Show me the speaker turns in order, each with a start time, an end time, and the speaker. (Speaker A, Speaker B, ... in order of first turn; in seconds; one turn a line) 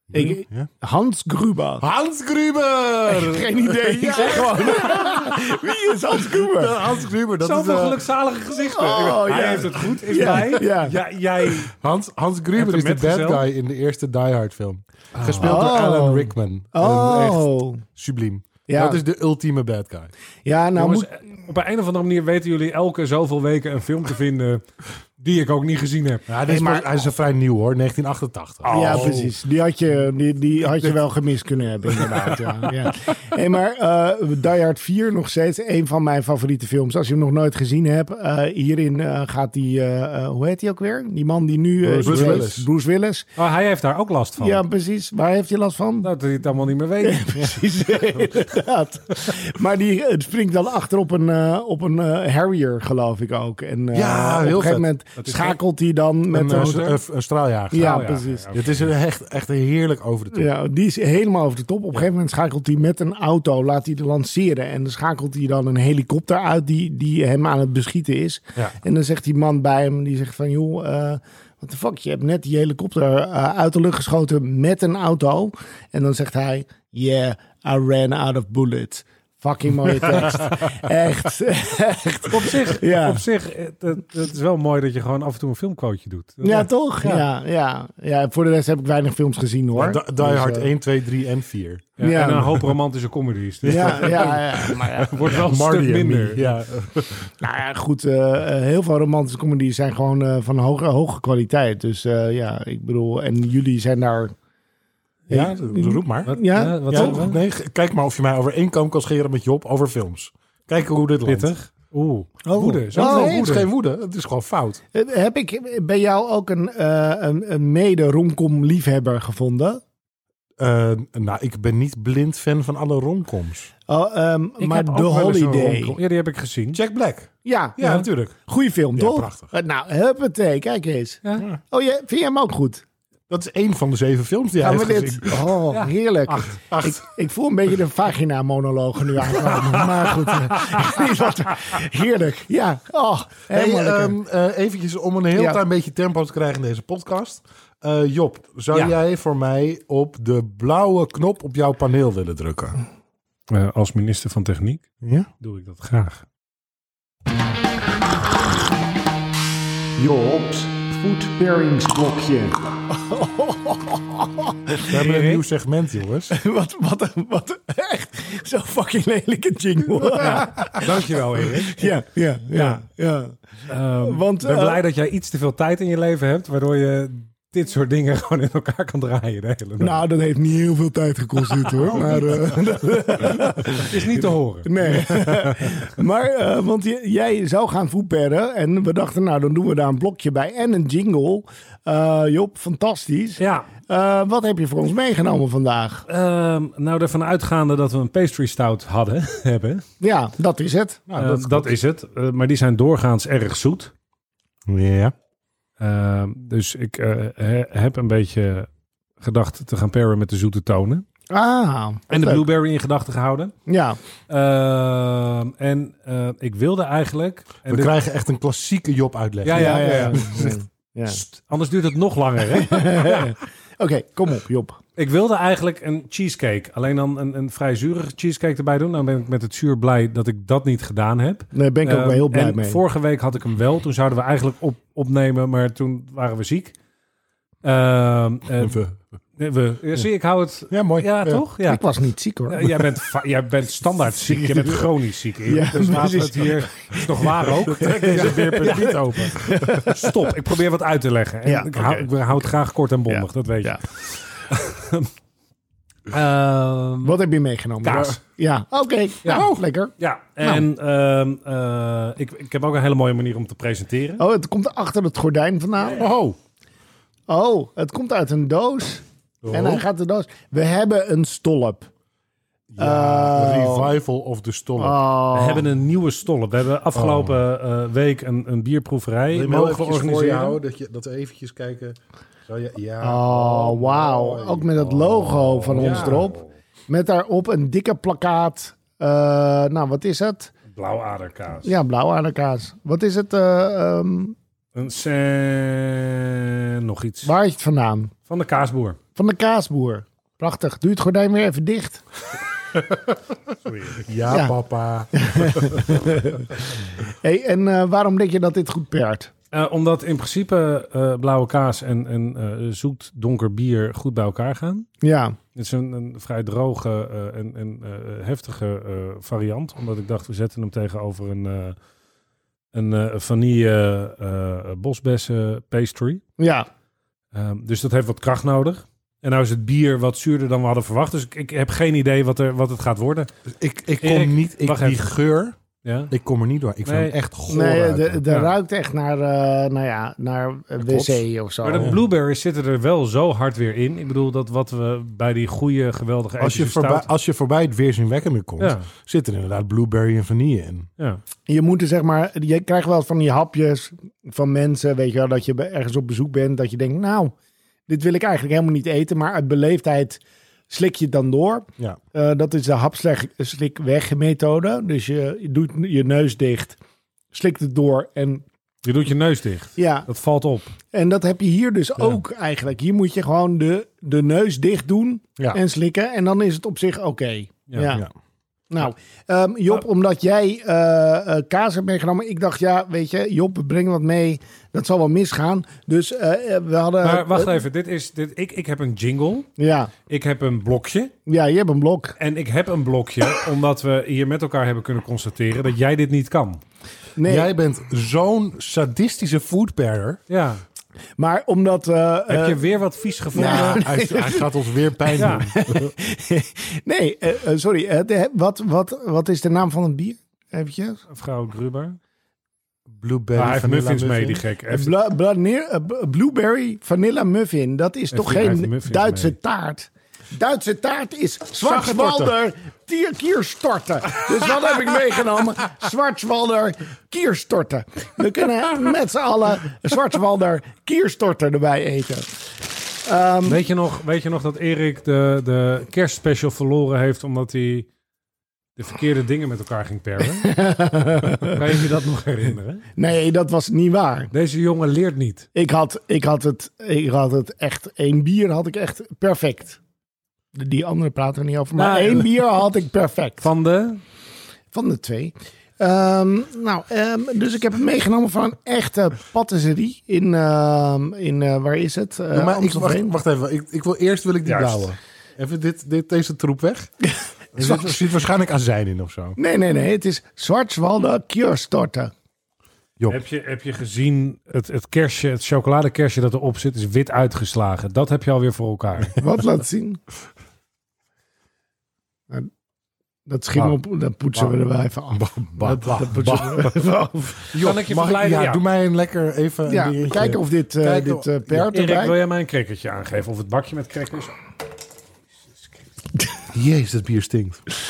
Speaker A: 0.1-0.7
Speaker B: 0.1-1.9
Speaker A: 1.8-5.5
Speaker B: 3.1-6.8
Speaker C: 4.2-4.7
Speaker A: 6.2-8.0
Speaker C: 7.4-11.7
Speaker B: 8.6-11.0
Speaker A: 11.7-20.1
Speaker C: 12.6-13.4
Speaker C: 15.2-15.6
Speaker B: 15.4-17.9
Speaker B: 18.7-19.0
Speaker B: 20.4-21.1
Speaker C: 20.8-24.6
Speaker C: 25.2-26.3
Speaker A: 26.3-29.3
Speaker B: 26.5-27.1
Speaker C: 28.6-29.3
Speaker B: 28.7-43.3
Speaker A: 32.0-32.5
Speaker A: 41.9-42.7
Speaker C: 43.4-44.6
Speaker B: 44.4-46.1
Speaker C: 46.0-47.7
Speaker B: 47.0-56.9
Speaker A: 53.9-54.9
Speaker C: 55.2-55.6
Speaker A: 56.3-60.5
Speaker C: 56.5-57.0
Speaker B: 57.7-58.5
Speaker C: 57.7-58.9
Speaker B: 60.3-83.2
Speaker C: 82.3-87.2
Speaker B: 86.4-90.7
Speaker A: 89.7-91.9
Speaker C: 92.0-96.7
Speaker B: 92.0-92.7
Speaker A: 93.6-97.3
Speaker B: 93.7-95.4
Speaker B: 97.4-104.3
Speaker B: 105.3-107.3
Speaker A: 105.3-106.4
Speaker C: 106.3-107.4
Speaker A: 106.9-111.5
Speaker C: 111.3-113.7
Speaker B: 112.5-113.5
Speaker A: 112.9-114.8
Speaker B: 114.9-119.8
Speaker A: 120.6-123.7
Speaker B: 123.9-126.0
Speaker C: 124.6-126.8
Speaker A: 126.7-128.4
Speaker B: 127.5-132.8
Speaker A: 128.9-129.5
Speaker A: 133.3-135.6
Speaker B: 134.6-144.2
Speaker C: 135.7-136.4
Speaker A: 136.7-137.0
Speaker A: 139.3-140.2
Speaker A: 143.5-152.8
Speaker C: 153.5-154.9
Speaker A: 155.0-155.3
Speaker C: 155.4-156.2
Speaker B: 160.0-164.9
Speaker A: 164.8-166.3
Speaker C: 164.9-165.4
Speaker B: 166.3-174.8
Speaker C: 170.2-171.9
Speaker C: 172.5-172.8
Speaker C: 173.7-180.0
Speaker B: 179.8-196.1
Speaker C: 181.8-182.1
Speaker A: 182.0-182.3
Speaker C: 183.7-185.1
Speaker C: 193.4-193.7
Speaker C: 196.1-199.8
Speaker B: 200.0-201.0
Speaker A: 201.1-201.8
Speaker C: 201.2-203.9
Speaker A: 204.7-205.1
Speaker C: 205.8-211.1
Speaker B: 211.3-212.4
Speaker C: 212.1-213.5
Speaker B: 213.7-214.0
Speaker C: 214.3-217.9
Speaker A: 217.7-220.6
Speaker C: 219.4-220.4
Speaker B: 219.5-221.2
Speaker C: 221.1-223.3
Speaker B: 222.5-224.8
Speaker C: 225.0-236.8
Speaker B: 231.5-232.8
Speaker C: 237.6-241.8
Speaker A: 238.6-238.9
Speaker A: 240.7-241.4
Speaker B: 241.7-242.7
Speaker C: 242.5-255.1
Speaker B: 244.5-244.8
Speaker B: 245.4-250.1
Speaker A: 245.7-246.3
Speaker A: 247.5-249.9
Speaker B: 251.4-252.4
Speaker B: 253.1-253.8
Speaker C: 256.1-257.2
Speaker B: 257.0-260.6
Speaker C: 257.8-258.2
Speaker A: 257.9-258.2
Speaker A: 259.3-259.6
Speaker C: 260.0-264.2
Speaker B: 264.2-266.1
Speaker A: 265.9-266.4
Speaker B: 267.3-271.9
Speaker A: 269.4-269.9
Speaker A: 272.7-275.0
Speaker B: 272.8-274.0
Speaker B: 274.8-275.7
Speaker C: 275.3-280.6
Speaker A: 276.9-277.4
Speaker A: 279.3-286.3
Speaker B: 283.0-290.5
Speaker C: 285.6-286.5
Speaker C: 290.7-291.8
Speaker B: 291.6-294.4
Speaker C: 294.8-297.3
Speaker B: 297.2-298.1
Speaker C: 298.3-299.0
Speaker B: 299.2-302.0
Speaker A: 302.8-303.2
Speaker C: 303.6-304.0
Speaker A: 304.0-306.0
Speaker B: 304.3-304.5
Speaker B: 305.1-309.3
Speaker C: 309.5-314.9
Speaker B: 315.0-315.4
Speaker C: 315.6-321.8
Speaker C: 322.7-326.2
Speaker B: 326.4-326.7
Speaker C: 327.3-333.3
Speaker A: 333.5-335.6
Speaker C: 334.0-335.1
Speaker C: 335.8-336.1
Speaker A: 336.1-338.2
Speaker C: 336.9-337.2
Speaker B: 337.5-341.9
Speaker C: 338.3-338.5
Speaker A: 340.8-341.2
Speaker C: 341.6-347.1
Speaker A: 346.4-350.9
Speaker C: 348.6-348.9
Speaker B: 351.5-357.3
Speaker B: 357.9-366.8
Speaker B: 367.3-368.4
Speaker C: 368.8-370.7
Speaker B: 369.8-370.1
Speaker B: 370.9-378.0
Speaker C: 377.7-378.0
Speaker B: 378.7-387.6
Speaker C: 387.0-389.5
Speaker B: 389.6-389.9
Speaker C: 390.1-391.1
Speaker B: 391.3-392.2
Speaker C: 392.2-396.6
Speaker B: 397.2-397.5
Speaker A: 397.2-400.2
Speaker C: 400.3-400.6
Speaker B: 401.2-402.6
Speaker C: 402.3-403.9
Speaker B: 403.3-404.5
Speaker A: 403.4-405.9
Speaker B: 405.1-411.0
Speaker C: 405.2-405.5
Speaker C: 411.1-412.0
Speaker A: 412.9-414.4
Speaker C: 413.4-414.9
Speaker B: 414.7-432.3
Speaker C: 418.1-419.4
Speaker A: 421.7-422.3
Speaker B: 433.1-433.6
Speaker C: 433.4-437.9
Speaker C: 438.8-440.6
Speaker B: 440.4-441.6
Speaker C: 441.4-442.9
Speaker B: 443.0-444.3
Speaker C: 444.3-445.5
Speaker B: 445.6-449.8
Speaker B: 450.5-453.5
Speaker C: 451.8-452.3
Speaker C: 453.4-454.0
Speaker B: 454.7-463.1
Speaker A: 462.3-466.9
Speaker C: 464.4-464.9
Speaker B: 467.0-468.0
Speaker A: 467.5-469.4
Speaker B: 469.4-472.1
Speaker C: 473.1-479.2
Speaker B: 479.2-480.0
Speaker B: 483.3-487.5
Speaker A: 485.1-486.7
Speaker A: 487.5-491.6
Speaker C: 487.6-488.6
Speaker B: 489.7-492.2
Speaker C: 491.7-494.4
Speaker A: 496.5-497.6